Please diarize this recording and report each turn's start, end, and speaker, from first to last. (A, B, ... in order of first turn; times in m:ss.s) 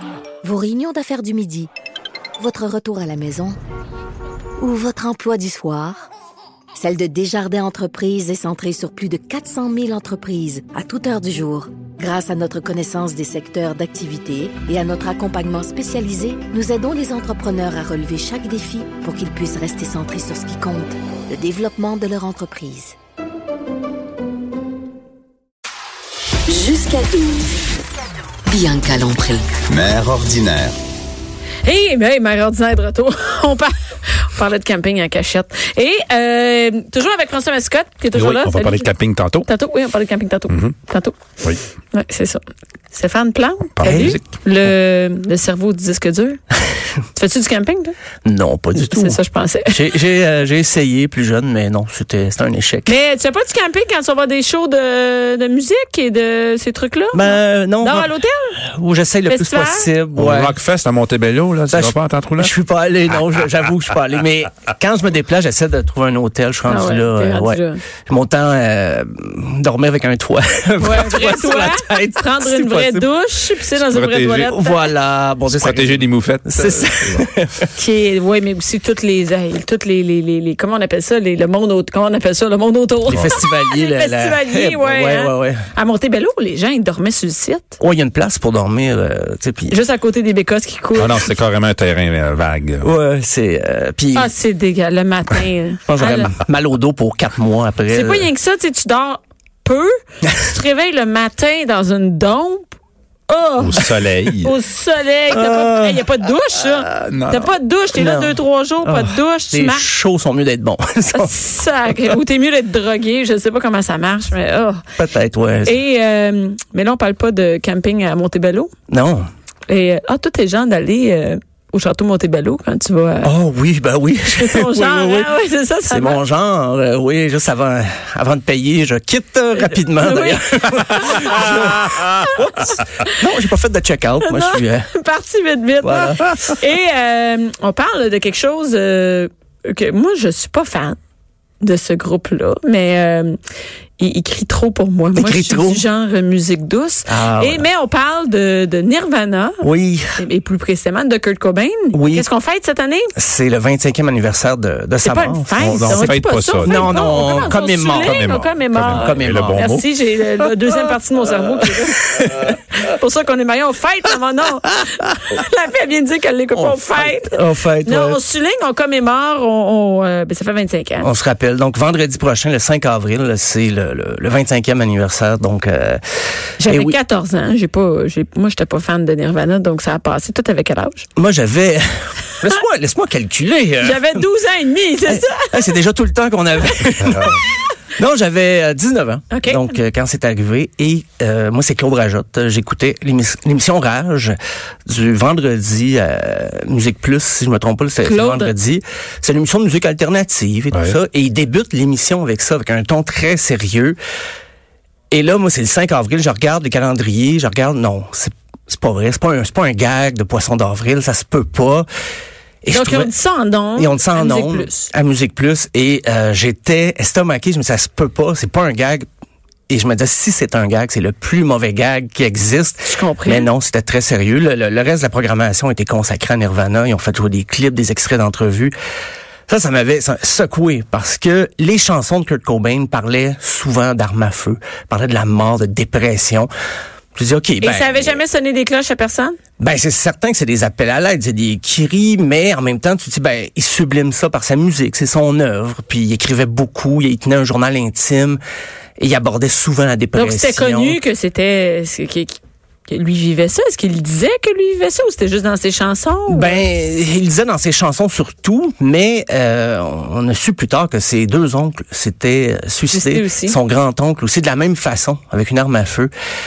0:00.4-0:01.7 A
0:02.4-0:03.6 A
0:04.6-0:06.1 A
0:06.8-0:22.9 A
0:26.5-0:27.4 B
0:28.5-0:29.8 B
0:29.7-0:30.8 C
0:31.6-0:38.9 D
0:38.1-0:39.5 C
0:39.5-0:41.2 D
0:40.5-0:40.8 C
0:41.9-0:46.4 D
0:43.8-0:44.2 C
0:43.8-0:44.2 E
0:47.2-0:47.9 D
0:48.2-0:53.0 E
0:48.8-0:49.8 D
0:52.9-0:58.6 D
0:57.1-0:58.2 E
0:58.8-1:00.6 E
0:59.3-0:59.9 D
1:00.2-1:02.5 C
1:01.7-1:13.1 E
1:06.7-1:07.8 D
1:10.8-1:14.9 D
1:13.8-1:14.6 C
1:14.5-1:17.7 E
1:15.5-1:17.3 C
1:17.8-1:27.8 D
1:23.1-1:25.6 E
1:27.8-1:29.8 E
1:29.7-1:31.3 D
1:31.0-1:32.9 C
1:32.8-1:34.3 E
1:34.1-1:36.4 D
1:35.9-1:38.3 E
1:37.9-1:42.7 D
1:43.3-1:43.9 D
1:43.6-1:44.5 C
1:44.4-1:49.9 D
1:45.3-1:46.0 E
1:46.9-1:47.5 C
1:48.0-1:51.3 E
1:51.1-1:54.8 D
1:55.0-1:55.8 E
1:55.6-1:58.7 D
1:58.9-1:59.2 E
1:59.7-2:03.3 D
2:03.2-2:05.3 E
2:04.3-2:06.2 D
2:05.9-2:14.9 E
2:09.6-2:13.2 D
2:14.2-2:21.0 D
2:15.8-2:16.5 E
2:21.6-2:23.4 D
2:24.0-2:29.6 D
2:25.2-2:25.8 E
2:27.1-2:27.7 E
2:29.6-2:30.2 E
2:30.2-2:33.1 D
2:31.9-2:32.3 E
2:33.2-2:36.1 E
2:35.0-2:51.1 D
2:35.6-2:39.8 C
2:36.6-2:38.3 E
2:38.9-2:39.9 E
2:42.2-2:42.5 E
2:46.6-2:48.2 E
2:51.0-2:56.0 E
2:56.6-2:57.0 E
2:56.6-3:01.1 D
3:01.2-3:04.3 E
3:03.8-3:05.7 D
3:05.1-3:07.4 E
3:08.0-3:14.3 E
3:09.3-3:09.7 D
3:14.9-3:24.0 E
3:18.0-3:18.5 D
3:25.1-3:31.9 E
3:32.6-3:33.1 E
3:32.7-3:34.9 D
3:33.8-3:39.0 E
3:39.7-3:48.7 E
3:42.9-3:43.5 D
3:49.5-3:56.5 E
3:57.2-3:58.2 E
3:57.6-3:59.4 D
3:59.6-4:08.4 E
4:09.0-4:11.0 E
4:10.1-4:16.6 D
4:16.3-4:26.1 E
4:22.9-4:23.6 D